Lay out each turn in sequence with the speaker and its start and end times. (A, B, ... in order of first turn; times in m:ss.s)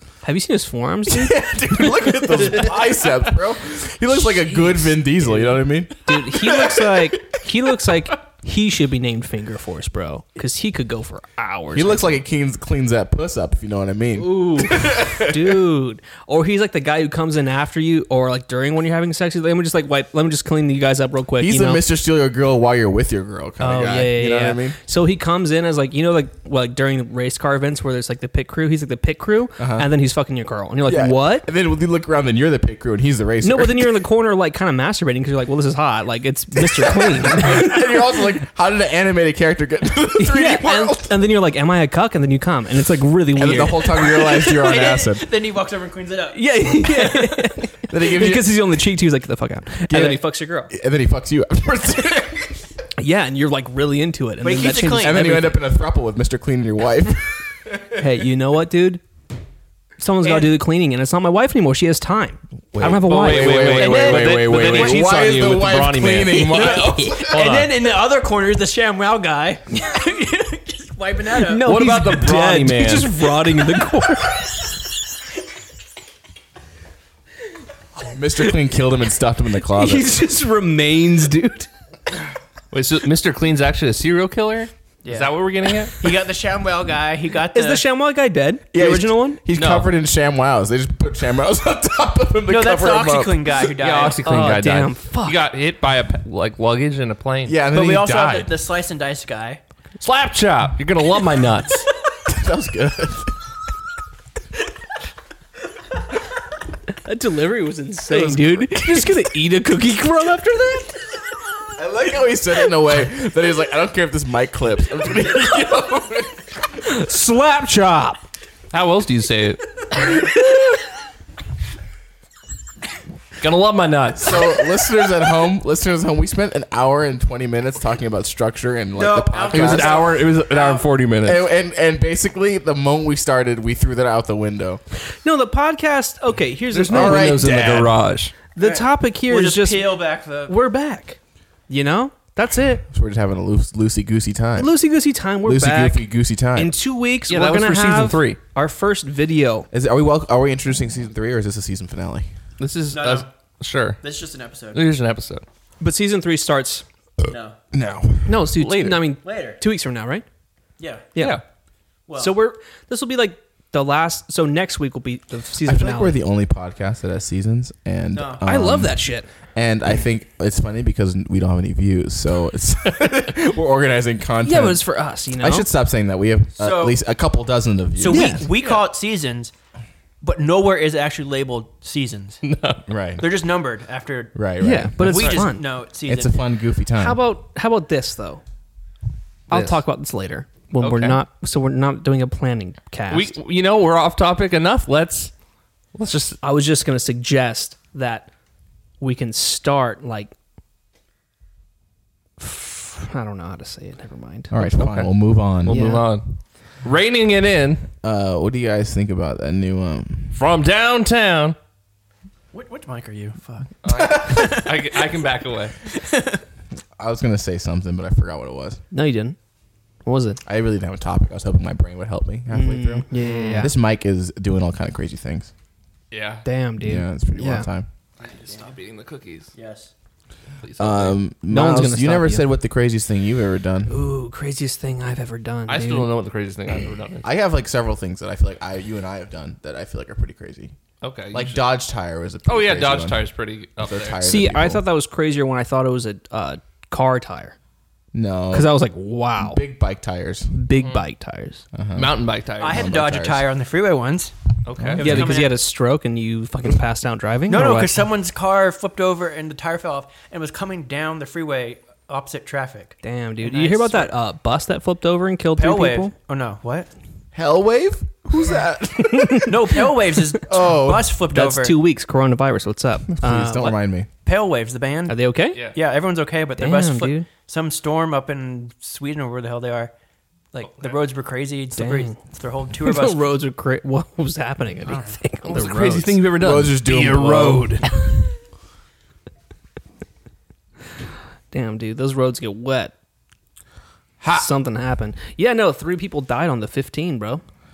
0:00.2-0:03.1 A
0:01.1-0:07.4 B
0:04.2-0:05.5 A
0:06.0-0:12.2 A
0:11.7-0:15.6 B
0:14.2-0:21.8 A
0:21.4-0:24.8 B
0:23.6-0:31.5 A
0:29.6-0:29.9 B
0:30.8-0:34.0 B
0:33.4-0:37.9 A
0:36.6-0:41.1 B
0:40.2-0:44.1 A
0:43.3-0:45.2 B
0:44.1-0:47.5 C
0:46.3-0:50.7 A
0:47.9-0:48.6 B
0:49.9-0:52.6 B
0:53.0-0:55.6 A
0:54.4-0:55.3 C
0:55.0-0:58.0 B
0:58.0-0:59.0 A
1:00.0-1:03.8 A
1:00.2-1:00.5 C
1:02.7-1:07.2 B
1:02.8-1:07.7 D
1:03.7-1:05.1 C
1:06.5-1:11.7 C
1:11.4-1:14.6 A
1:11.6-1:13.2 D
1:18.0-1:20.1 B
1:19.6-1:21.7 A
1:22.7-1:26.0 D
1:25.0-1:25.3 C
1:26.0-1:27.8 C
1:27.5-1:29.4 A
1:28.7-1:33.6 B
1:29.5-1:29.9 D
1:32.5-1:34.2 C
1:33.7-1:37.6 D
1:34.2-1:35.4 A
1:37.4-1:38.5 B
1:37.7-1:39.6 C
1:40.0-1:41.9 D
1:42.2-1:43.4 B
1:47.0-1:51.2 A
1:48.1-1:49.1 B
1:51.8-1:56.6 B
1:56.8-1:58.2 A
1:58.7-1:59.6 D
2:03.4-2:04.4 D
2:04.1-2:10.1 B
2:08.9-2:10.9 C
2:09.5-2:11.4 D
2:11.2-2:14.8 B
2:15.1-2:17.4 A
2:16.7-2:18.3 D
2:16.9-2:17.9 B
2:18.5-2:19.9 A
2:18.6-2:20.5 C
2:20.5-2:21.2 A
2:21.7-2:22.8 A
2:22.9-2:24.7 B
2:24.6-2:29.7 A
2:25.4-2:26.7 B
2:27.3-2:28.4 D
2:29.7-2:32.3 B
2:32.6-2:34.0 D
2:32.9-2:33.3 C
2:34.0-2:34.8 C
2:34.7-2:35.4 D
2:35.8-2:36.8 A
2:37.3-2:37.6 C
2:37.7-2:38.7 B
2:38.2-2:40.2 A
2:38.6-2:39.0 D
2:39.2-2:39.6 C
2:40.8-2:41.1 C
2:41.2-2:41.4 A
2:41.2-2:41.4 D
2:42.1-2:42.3 C
2:42.2-2:46.2 A
2:45.6-2:49.0 B
2:48.1-2:48.4 C
2:48.4-2:49.3 A
2:49.5-2:54.8 B
2:54.4-2:55.7 A
2:55.4-2:58.4 B
2:56.6-2:57.0 C
2:58.0-2:59.5 C
2:58.1-2:58.5 A
3:00.2-3:02.4 C
3:02.4-3:02.8 D
3:02.9-3:03.3 B
3:03.2-3:04.4 C
3:04.3-3:07.2 B
3:04.6-3:05.6 A
3:05.0-3:06.4 C
3:07.0-3:08.4 A
3:09.5-3:13.3 A
3:09.5-3:09.8 D
3:10.8-3:11.2 D
3:13.1-3:15.3 D
3:15.9-3:16.4 D
3:16.4-3:18.3 A
3:19.0-3:20.3 A
3:22.4-3:24.5 A
3:24.5-3:25.8 B
3:24.7-3:27.8 D
3:25.7-3:26.0 A
3:28.0-3:30.4 B
3:30.3-3:31.6 D
3:32.5-3:35.0 C
3:33.8-3:35.7 D
3:34.0-3:34.4 B
3:35.9-3:36.4 C
3:37.0-3:38.8 B
3:38.9-3:39.4 A
3:40.0-3:40.4 A
3:40.4-3:45.5 B
3:42.5-3:43.8 A
3:46.1-3:46.4 D
3:46.4-3:47.7 A
3:46.8-3:47.9 B
3:48.2-3:49.5 D
3:48.3-3:48.7 C
3:49.5-3:49.9 C
3:50.6-3:51.2 D
3:50.8-3:53.9 B
3:51.5-3:52.4 A
3:53.9-3:56.1 A
3:55.7-3:57.2 D
3:57.2-4:00.7 B
4:01.0-4:01.6 D
4:01.3-4:03.3 B
4:02.4-4:04.2 D
4:03.8-4:04.8 B
4:04.2-4:07.5 A
4:08.1-4:08.8 B
4:08.5-4:09.6 A
4:09.4-4:10.5 B
4:10.5-4:11.6 A
4:10.8-4:11.0 D
4:11.7-4:13.5 B
4:11.9-4:12.9 D
4:12.6-4:14.3 C
4:14.6-4:15.3 D
4:14.8-4:15.3 B
4:14.9-4:15.6 C
4:15.0-4:18.0 A
4:17.5-4:24.1 C
4:23.0-4:26.1 A
4:25.6-4:26.9 C
4:27.3-4:29.8 B
4:29.0-4:29.5 A
4:29.4-4:31.8 C
4:30.4-4:31.2 B
4:31.3-4:33.8 A
4:33.1-4:34.1 B
4:34.2-4:35.2 C
4:35.1-4:35.6 A
4:35.7-4:39.9 C
4:36.6-4:37.3 A
4:40.5-4:43.2 C
4:40.6-4:41.0 D
4:41.7-4:42.2 A
4:42.8-4:46.2 A
4:44.9-4:45.2 C
4:45.4-4:47.8 D
4:46.3-4:47.8 B
4:51.5-4:52.9 A
4:54.3-4:57.4 A